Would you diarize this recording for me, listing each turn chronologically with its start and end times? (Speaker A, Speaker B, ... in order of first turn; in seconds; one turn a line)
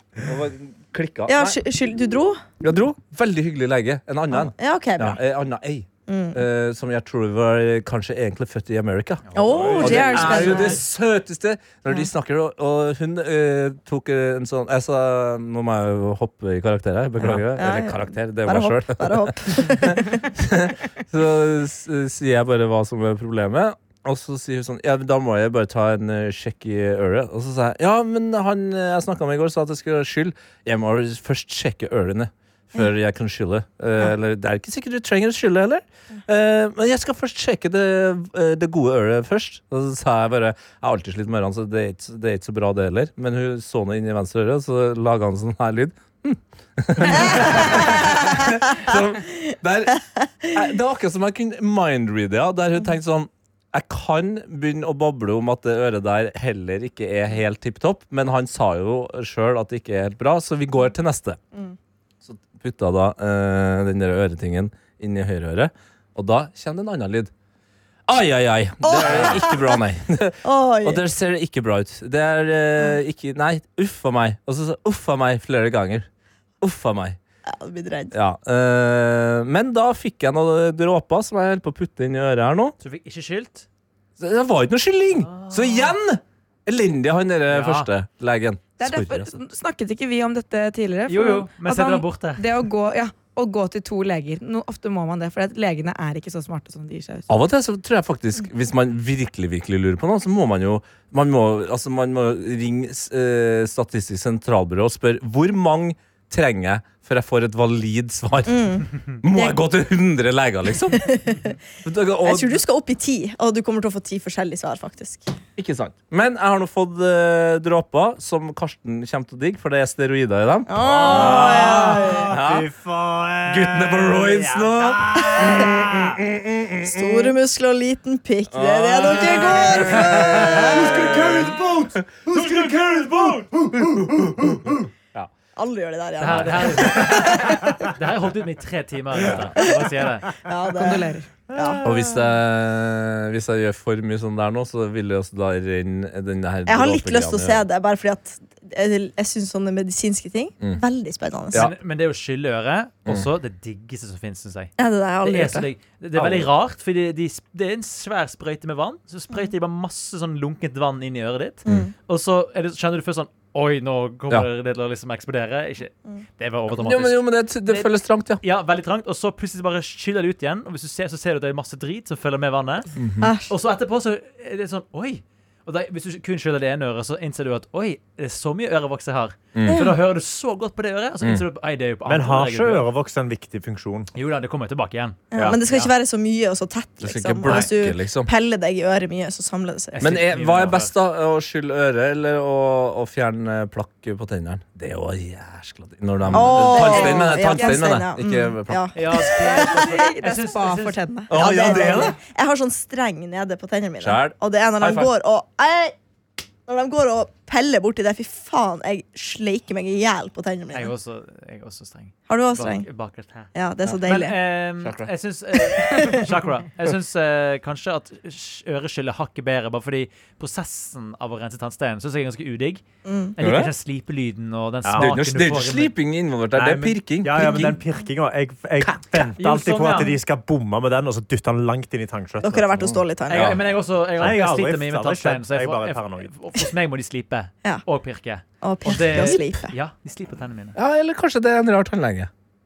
Speaker A: 0.2-1.6
Speaker B: 1.3-2.5
Speaker A: 2.6-61.4
Speaker B: 4.3-5.2
Speaker B: 6.1-6.4
Speaker C: 9.3-10.8
Speaker B: 9.3-10.8
Speaker D: 9.5-10.5
Speaker B: 17.6-20.3
Speaker B: 47.1-49.0
Speaker B: 50.2-50.5
Speaker A: 62.2-67.3
Speaker A: 68.1-76.1
Speaker B: 68.8-69.8
Speaker B: 70.4-71.0
Speaker A: 76.6-77.2
Speaker B: 77.5-78.1
Speaker A: 78.1-82.8
Speaker C: 82.8-83.7
Speaker A: 84.2-89.3
Speaker C: 85.2-86.0
Speaker C: 87.5-87.9
Speaker E: 88.8-97.3
Speaker C: 91.1-92.5
Speaker A: 97.3-111.2
Speaker B: 108.5-109.6
Speaker B: 111.0-111.5
Speaker A: 111.8-112.6
Speaker B: 112.2-115.3
Speaker A: 115.6-122.7
Speaker B: 120.7-122.3
Speaker D: 121.0-126.2
Speaker A: 123.5-127.3
Speaker B: 125.4-125.7
Speaker B: 126.8-130.9
Speaker A: 128.5-132.8
Speaker D: 129.9-134.8
Speaker A: 134.1-135.3
Speaker B: 135.6-137.8
Speaker C: 136.2-140.3
Speaker A: 136.2-136.8
Speaker B: 139.6-139.8
Speaker B: 140.4-141.8
Speaker E: 140.7-141.3
Speaker D: 141.5-142.2
Speaker A: 141.8-147.6
Speaker B: 146.7-151.7
Speaker C: 151.5-172.9
Speaker B: 154.8-155.7
Speaker A: 166.7-168.4
Speaker A: 173.0-173.3
Speaker B: 173.2-173.5
Speaker C: 173.5-182.9
Speaker A: 179.6-179.8
Speaker B: 179.7-179.9
Speaker D: 182.1-184.1
Speaker C: 184.2-185.9
Speaker B: 185.3-190.1
Speaker A: 187.0-188.3
Speaker C: 189.9-190.9
Speaker A: 190.0-198.9
Speaker B: 196.3-199.9
Speaker E: 196.4-197.8
Speaker C: 198.9-201.1
Speaker E: 199.4-202.1
Speaker A: 201.3-202.1
Speaker B: 201.3-206.0
Speaker A: 204.0-205.1
Speaker B: 206.7-210.9
Speaker C: 210.7-222.8
Speaker B: 212.3-212.9
Speaker B: 213.5-214.4
Speaker A: 214.8-215.1
Speaker B: 215.8-216.0
Speaker B: 223.1-223.3
Speaker C: 223.4-225.9
Speaker A: 223.4-223.7
Speaker D: 224.8-225.2
Speaker A: 224.9-227.8
Speaker D: 226.5-232.9
Speaker C: 229.4-230.2
Speaker B: 232.4-233.6
Speaker A: 232.8-233.6
Speaker C: 233.3-240.8
Speaker D: 234.2-236.3
Speaker B: 238.6-239.7
Speaker A: 240.8-242.3